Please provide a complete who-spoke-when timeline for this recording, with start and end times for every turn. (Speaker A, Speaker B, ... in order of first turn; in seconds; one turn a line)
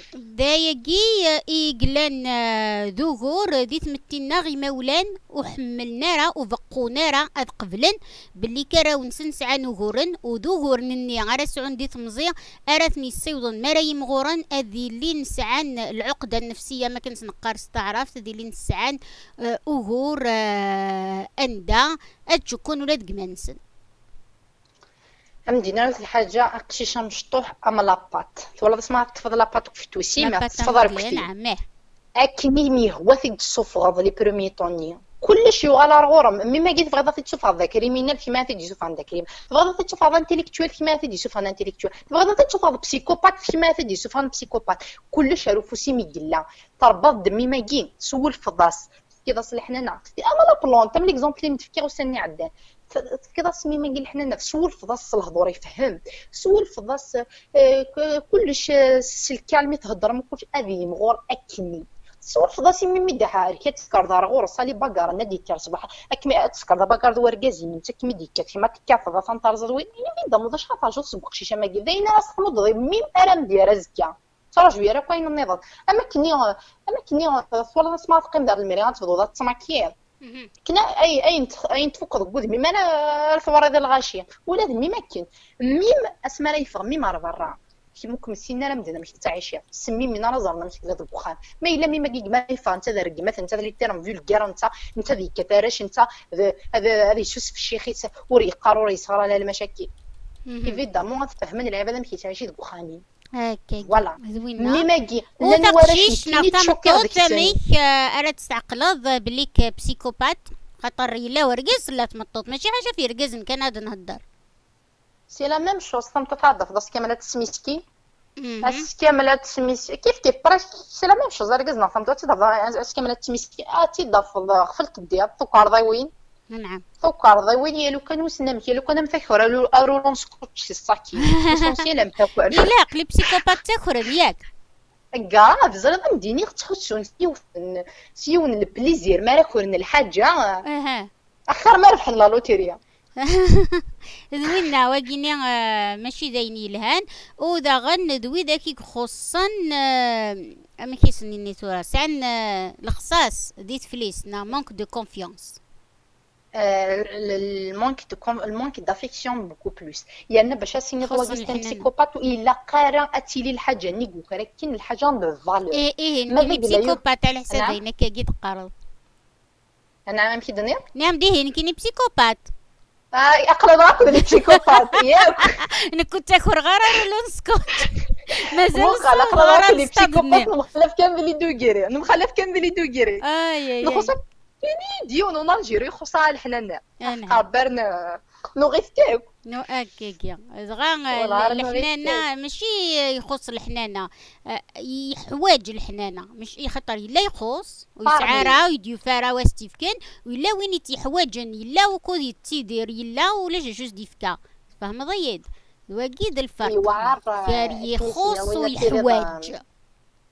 Speaker A: 0.2-23.6
Speaker B: 25.5-31.3
Speaker A: 30.2-31.6
Speaker B: 32.2-80.0
Speaker A: 80.2-80.5
Speaker B: 80.7-99.9
Speaker A: 100.5-100.8
Speaker B: 100.7-103.0
Speaker A: 103.4-104.8
Speaker B: 103.8-107.6
Speaker A: 105.4-114.2
Speaker B: 115.3-117.8
Speaker A: 118.4-118.9
Speaker B: 118.6-126.1
Speaker A: 126.5-126.8
Speaker B: 127.0-132.7
Speaker A: 131.2-131.8
Speaker A: 132.5-134.4
Speaker B: 135.1-140.6
Speaker A: 140.7-141.1
Speaker B: 141.5-142.8
Speaker A: 143.2-155.6
Speaker B: 156.6-167.8
Speaker A: 161.0-161.9
Speaker A: 165.7-168.7
Speaker B: 170.1-170.8
Speaker A: 170.9-172.5
Speaker B: 173.1-175.6
Speaker A: 174.1-180.5
Speaker B: 177.8-183.2
Speaker A: 183.2-184.1
Speaker B: 183.8-189.3
Speaker A: 187.0-187.4
Speaker A: 189.5-209.6
Speaker B: 191.1-192.2
Speaker B: 198.1-198.6
Speaker B: 206.7-209.5